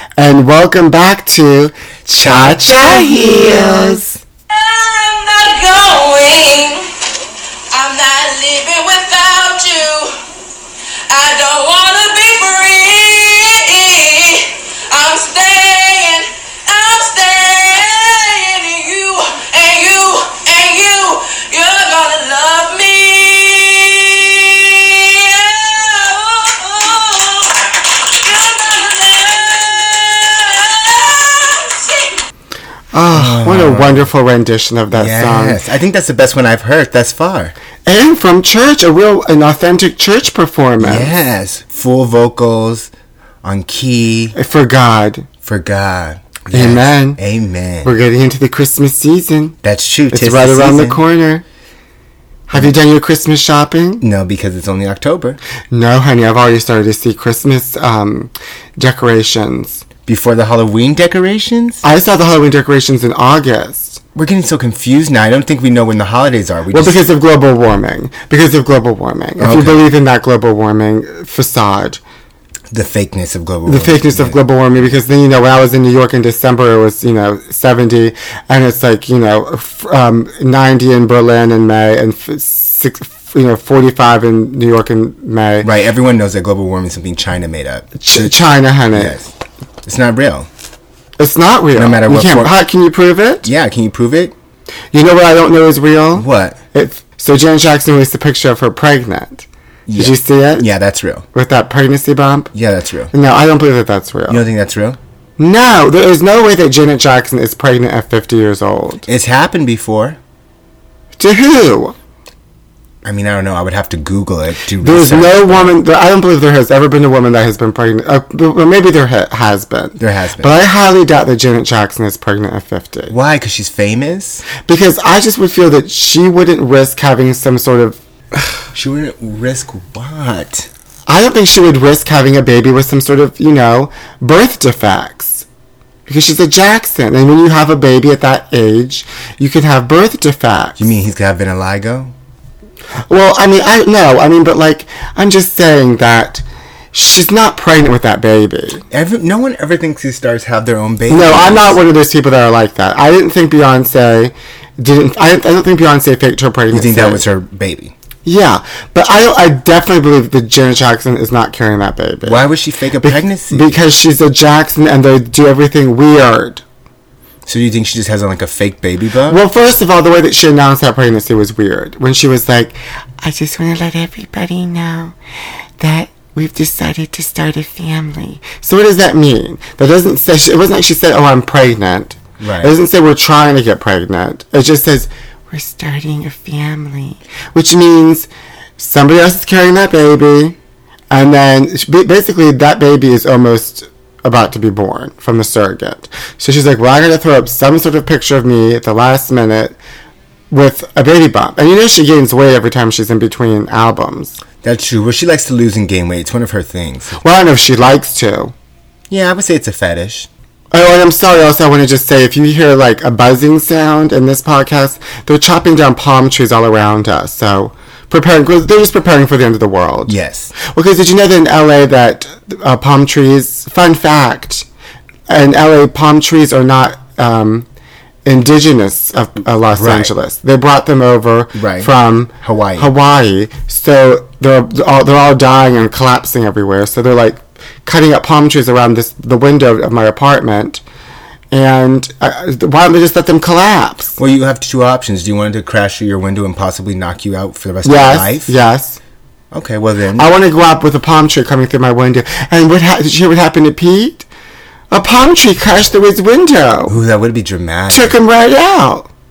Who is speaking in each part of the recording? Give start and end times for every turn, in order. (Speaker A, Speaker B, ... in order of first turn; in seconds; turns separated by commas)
Speaker A: 0.2-4.0, Speaker B: 2.1-4.2, Speaker C: 4.5-6.9, Speaker C: 7.7-10.2, Speaker C: 11.1-32.2, Speaker A: 32.9-35.6, Speaker B: 33.1-34.1, Speaker B: 34.9-37.5, Speaker A: 37.9-41.1, Speaker B: 40.8-42.9, Speaker B: 43.4-44.4, Speaker A: 44.4-45.3, Speaker B: 45.4-47.9, Speaker A: 46.5-47.2, Speaker A: 47.8-49.6, Speaker B: 49.6-51.0, Speaker A: 50.1-51.4, Speaker A: 52.5-54.0, Speaker B: 54.0-55.4, Speaker A: 55.7-59.8, Speaker B: 60.1-61.8, Speaker A: 61.8-64.0, Speaker B: 64.2-67.0, Speaker A: 66.7-72.0, Speaker B: 69.4-69.8, Speaker B: 72.7-74.4, Speaker A: 73.7-85.7, Speaker B: 85.6-88.4, Speaker A: 88.0-89.2, Speaker B: 88.9-89.3, Speaker B: 89.8-90.5, Speaker A: 91.2-93.5, Speaker B: 91.8-92.6, Speaker B: 93.4-94.3, Speaker A: 94.9-100.7, Speaker B: 96.2-96.6, Speaker B: 99.9-101.2, Speaker A: 101.3-102.5, Speaker B: 102.5-103.1, Speaker A: 103.1-104.5, Speaker B: 104.3-105.0, Speaker A: 105.4-109.1, Speaker B: 109.1-110.2, Speaker A: 111.2-112.0, Speaker B: 113.0-115.8, Speaker A: 114.8-123.2, Speaker B: 120.0-120.5, Speaker B: 123.1-124.5, Speaker A: 124.6-128.5, Speaker B: 128.7-130.7, Speaker A: 131.1-135.4, Speaker A: 136.1-140.9, Speaker B: 140.8-142.1, Speaker A: 143.1-148.8, Speaker B: 148.9-151.8, Speaker A: 151.1-157.2, Speaker B: 156.7-157.9, Speaker A: 158.2-162.5, Speaker B: 162.2-163.8, Speaker A: 163.0-166.6, Speaker B: 167.5-169.4, Speaker A: 169.3-175.2, Speaker A: 175.8-190.6, Speaker B: 182.4-182.7, Speaker A: 191.1-199.8, Speaker A: 200.5-204.4, Speaker B: 204.6-207.2, Speaker A: 207.2-208.5, Speaker B: 209.1-210.3, Speaker A: 210.7-224.7, Speaker B: 220.1-220.6, Speaker A: 225.3-227.7, Speaker A: 228.2-240.8, Speaker B: 229.7-230.1, Speaker B: 231.6-232.9, Speaker A: 241.5-244.2, Speaker B: 244.2-248.5, Speaker A: 247.8-249.0, Speaker B: 249.5-250.3, Speaker A: 250.2-254.3, Speaker A: 254.9-257.0, Speaker B: 256.9-258.2, Speaker A: 257.9-259.1